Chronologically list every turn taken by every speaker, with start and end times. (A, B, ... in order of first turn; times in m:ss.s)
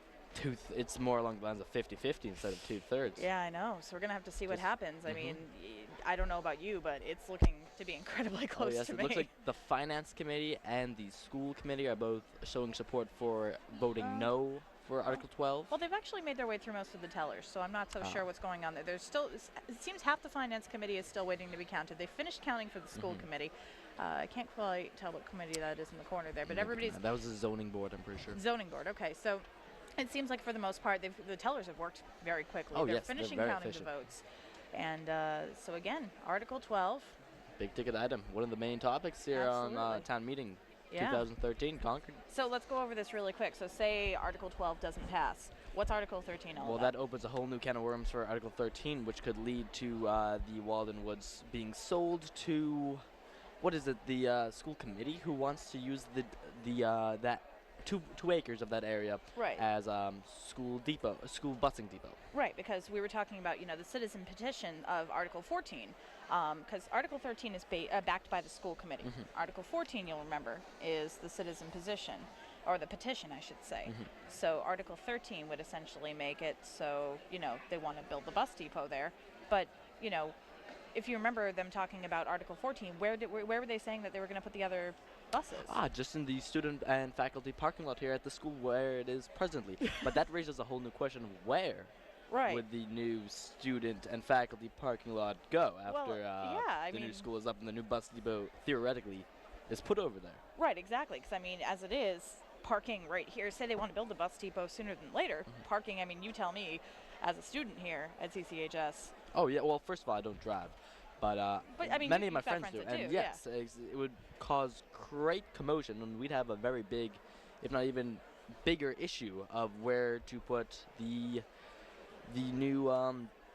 0:00.4-0:03.2 A
0:03.2-0:09.3 B
0:04.5-0:05.4 A
0:08.6-0:15.7 A
0:14.0-0:14.3 B
0:15.0-0:27.0 B
0:23.0-0:23.2 A
0:26.5-0:28.4 A
0:28.3-0:29.5 B
0:30.0-0:37.2 B
0:32.7-0:33.9 A
0:37.6-0:42.2 A
0:39.3-0:40.1 B
0:40.9-0:41.3 B
0:42.3-0:46.9 B
0:46.6-0:53.0 A
0:53.6-1:02.2 A
0:59.4-0:59.6 B
1:02.3-1:20.4 B
1:20.9-1:25.8 B
1:25.7-1:31.9 A
1:32.3-1:32.6 B
1:32.5-1:40.4 A
1:35.9-1:37.3 B
1:40.6-1:49.1 B
1:49.3-2:01.4 A
1:51.8-1:53.4 B
2:02.3-2:03.3 A